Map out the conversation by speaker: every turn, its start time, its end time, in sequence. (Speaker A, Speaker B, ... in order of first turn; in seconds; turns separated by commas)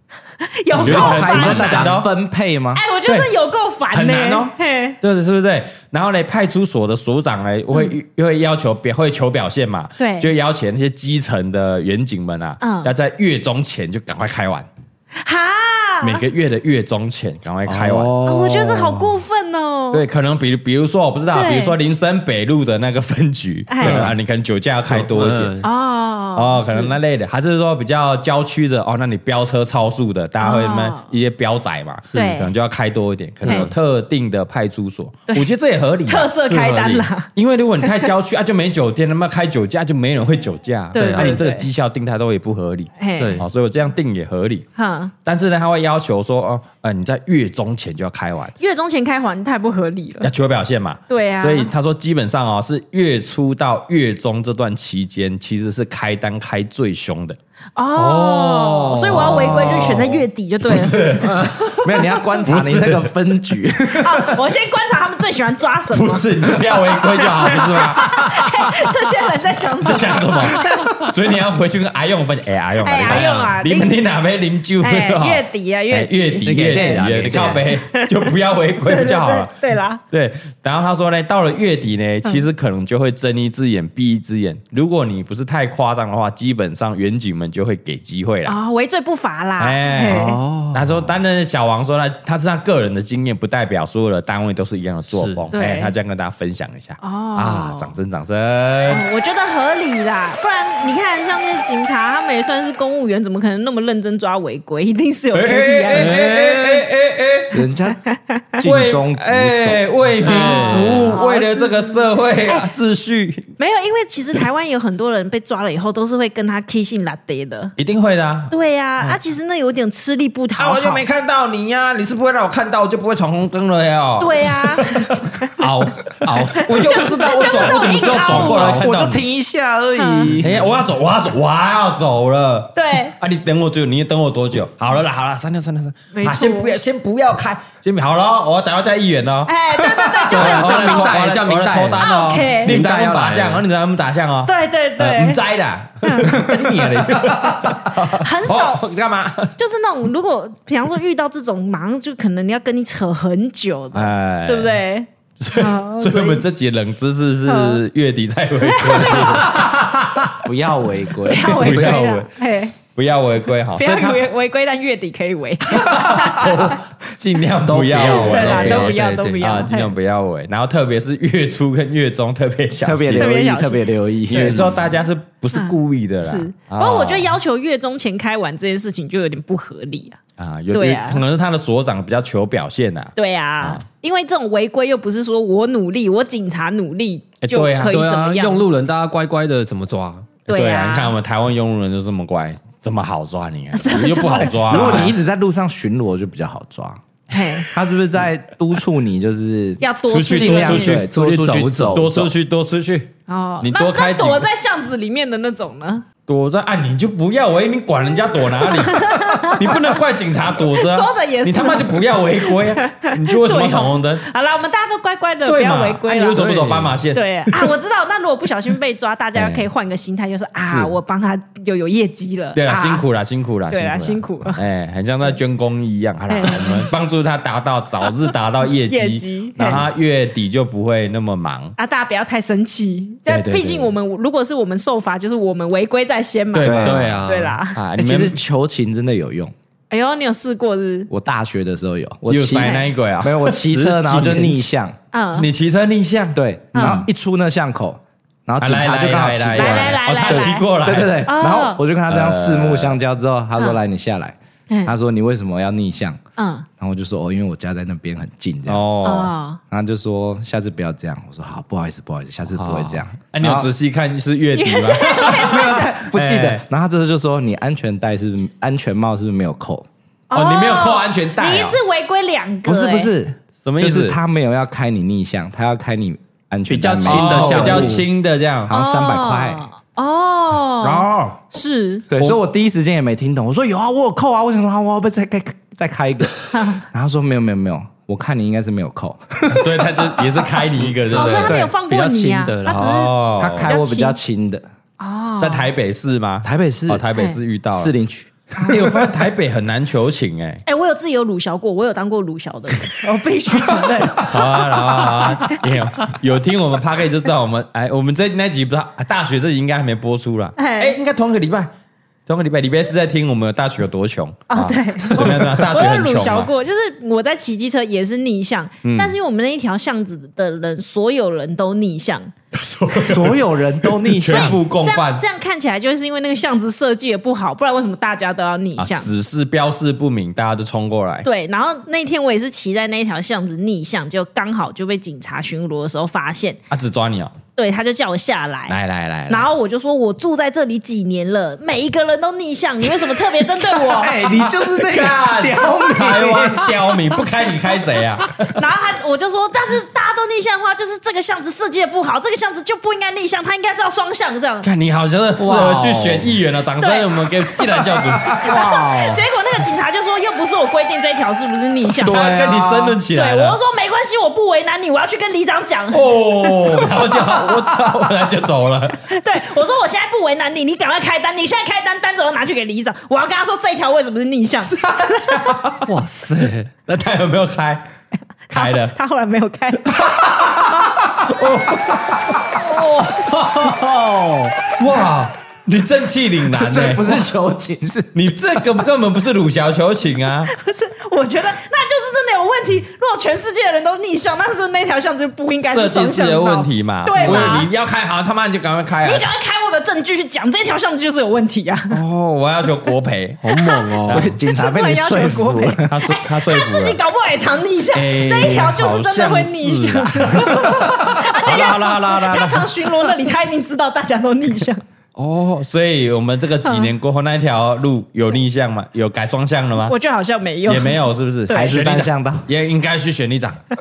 Speaker A: 0.4-1.9, Speaker B: 0.8-2.1, Speaker C: 0.8-2.8, Speaker A: 2.7-5.0, Speaker B: 3.1-3.3, Speaker B: 3.9-14.7, Speaker A: 10.0-10.3, Speaker A: 12.6-12.9, Speaker A: 15.2-16.2, Speaker B: 16.0-18.1, Speaker D: 17.7-18.1, Speaker C: 17.7-19.2, Speaker A: 18.2-20.0, Speaker B: 19.9-25.6, Speaker A: 21.3-21.8, Speaker A: 23.7-24.0, Speaker D: 23.8-24.1, Speaker D: 24.9-25.6, Speaker A: 25.6-27.0, Speaker B: 26.4-36.4, Speaker A: 30.4-31.1, Speaker A: 32.1-32.5, Speaker D: 33.4-33.7, Speaker A: 33.5-33.7, Speaker A: 36.1-37.3, Speaker D: 36.4-37.1, Speaker B: 37.3-44.7, Speaker A: 37.8-38.1, Speaker A: 40.9-41.7, Speaker D: 40.9-41.4, Speaker A: 43.0-43.4, Speaker D: 43.2-43.5, Speaker A: 44.8-45.1, Speaker B: 45.2-48.5, Speaker A: 48.6-50.3, Speaker B: 50.2-57.4, Speaker A: 51.1-51.7, Speaker A: 57.8-61.3, Speaker D: 58.0-60.0, Speaker B: 59.0-61.8, Speaker D: 61.3-61.5, Speaker C: 61.6-64.4, Speaker B: 62.5-63.1, Speaker A: 64.0-66.5, Speaker B: 65.9-68.8, Speaker A: 67.1-71.0, Speaker B: 69.8-88.6, Speaker A: 72.8-73.9, Speaker D: 73.0-73.5, Speaker A: 74.8-78.3, Speaker D: 76.5-77.7, Speaker A: 78.8-80.0, Speaker A: 88.5-90.4, Speaker B: 89.6-99.0, Speaker D: 90.0-90.9, Speaker D: 95.1-95.5, Speaker A: 95.5-95.9, Speaker A: 97.0-97.9, Speaker A: 98.9-106.2, Speaker B: 105.3-107.6, Speaker D: 105.9-106.8, Speaker C: 107.5-108.0, Speaker A: 108.2-108.6, Speaker C: 108.6-109.9, Speaker B: 108.6-113.5, Speaker D: 110.2-111.1, Speaker A: 110.2-112.7, Speaker A: 113.6-117.8, Speaker B: 117.8-119.2, Speaker A: 118.5-121.0, Speaker B: 120.6-129.2, Speaker A: 124.2-125.6, Speaker A: 126.3-128.8, Speaker C: 127.8-130.7, Speaker A: 130.0-130.3, Speaker B: 130.4-139.5, Speaker A: 132.8-133.2, Speaker A: 136.1-136.7, Speaker A: 139.5-141.2, Speaker B: 140.2-149.5, Speaker D: 140.3-142.1, Speaker A: 142.0-142.8, Speaker D: 142.6-143.7, Speaker A: 144.4-145.4, Speaker A: 146.0-146.8, Speaker C: 146.5-147.3, Speaker A: 148.1-148.9, Speaker A: 149.6-156.4, Speaker B: 153.9-154.8, Speaker B: 155.4-160.3, Speaker A: 157.5-157.8, Speaker A: 158.6-159.6, Speaker C: 160.4-162.0, Speaker A: 161.3-162.8, Speaker B: 161.3-164.2, Speaker A: 163.8-166.8, Speaker B: 165.7-173.3, Speaker D: 167.6-169.6, Speaker A: 168.0-169.9, Speaker C: 172.8-174.8, Speaker A: 173.2-173.9, Speaker B: 174.3-177.4, Speaker A: 175.5-180.2, Speaker B: 180.4-183.8, Speaker A: 180.7-181.2, Speaker A: 183.2-188.7, Speaker B: 187.4-188.0, Speaker D: 187.9-190.3, Speaker A: 190.5-191.2, Speaker B: 190.5-195.2, Speaker A: 193.7-195.1, Speaker C: 194.7-197.0, Speaker A: 197.3-197.7, Speaker C: 197.6-202.3, Speaker A: 199.8-201.0, Speaker B: 200.0-201.1, Speaker D: 201.0-202.2, Speaker B: 201.9-204.5, Speaker A: 203.3-206.1, Speaker B: 206.3-214.2, Speaker A: 208.6-209.8, Speaker A: 210.6-216.5, Speaker B: 215.4-217.7, Speaker D: 216.3-217.0, Speaker A: 217.1-223.1, Speaker B: 219.4-219.7, Speaker B: 220.7-220.9, Speaker B: 222.6-231.8, Speaker A: 223.7-224.6, Speaker A: 226.3-226.9, Speaker A: 228.8-229.9, Speaker A: 231.8-237.8, Speaker B: 233.3-233.9, Speaker B: 236.5-237.2, Speaker C: 236.6-237.1, Speaker D: 236.7-237.6, Speaker B: 237.7-238.4, Speaker C: 238.0-239.5, Speaker A: 239.9-241.1, Speaker C: 241.1-245.0, Speaker B: 242.3-244.7, Speaker A: 242.5-242.9, Speaker A: 245.1-245.5, Speaker B: 245.4-247.0, Speaker C: 246.3-256.2, Speaker A: 246.7-247.1, Speaker B: 248.6-251.3, Speaker A: 249.5-250.7, Speaker A: 251.2-251.8, Speaker B: 252.1-253.0, Speaker A: 256.4-256.7, Speaker C: 256.8-258.9, Speaker B: 258.7-259.3, Speaker A: 259.0-259.6, Speaker C: 259.7-263.7, Speaker D: 262.6-263.0, Speaker B: 263.3-266.6, Speaker A: 264.5-265.9, Speaker C: 265.3-269.9, Speaker A: 270.3-273.1, Speaker B: 270.3-271.8, Speaker C: 272.7-278.1, Speaker B: 273.6-274.2, Speaker D: 276.7-278.1, Speaker B: 277.0-278.7, Speaker C: 278.7-279.7, Speaker A: 278.7-282.1, Speaker B: 280.8-281.4, Speaker C: 282.1-290.5, Speaker A: 286.5-286.9, Speaker B: 289.5-291.5, Speaker D: 290.9-292.9, Speaker A: 291.1-294.2, Speaker C: 291.4-291.7, Speaker B: 292.7-293.7, Speaker C: 292.9-294.6, Speaker A: 295.0-295.7, Speaker B: 295.4-297.9, Speaker C: 296.4-297.1, Speaker C: 297.7-299.2, Speaker B: 298.6-300.6, Speaker A: 300.7-305.6, Speaker B: 303.8-311.7, Speaker A: 310.6-310.9, Speaker B: 312.3-316.5, Speaker A: 314.5-322.3, Speaker B: 318.8-319.2, Speaker B: 322.5-325.2, Speaker C: 322.9-324.6, Speaker A: 324.3-329.1, Speaker B: 328.8-331.3, Speaker A: 331.2-336.6, Speaker B: 336.7-337.4, Speaker A: 337.6-338.8, Speaker B: 338.7-339.5, Speaker A: 339.3-344.2, Speaker C: 343.9-346.8, Speaker B: 344.2-348.6, Speaker A: 348.6-354.7, Speaker B: 354.6-358.6, Speaker D: 355.4-356.4, Speaker A: 356.8-357.3, Speaker A: 358.3-362.3, Speaker D: 358.4-359.2, Speaker C: 362.0-363.0, Speaker B: 362.0-363.6, Speaker A: 363.1-367.8, Speaker B: 365.9-369.1, Speaker A: 369.1-374.8, Speaker B: 374.7-375.9, Speaker D: 375.9-376.7, Speaker B: 376.9-377.9, Speaker A: 378.5-380.1, Speaker B: 378.5-378.9, Speaker B: 379.9-382.4, Speaker D: 382.6-384.7, Speaker B: 384.8-387.3, Speaker C: 386.5-388.3, Speaker B: 388.1-390.5, Speaker A: 390.5-397.7, Speaker B: 395.6-399.3, Speaker C: 397.2-397.6, Speaker A: 399.0-402.0, Speaker B: 401.9-404.3, Speaker A: 403.5-414.8, Speaker C: 404.0-406.1, Speaker B: 405.9-407.0, Speaker B: 407.9-412.9, Speaker B: 415.2-419.9, Speaker A: 416.6-416.9, Speaker A: 419.9-421.8, Speaker B: 420.7-423.6, Speaker C: 421.5-422.5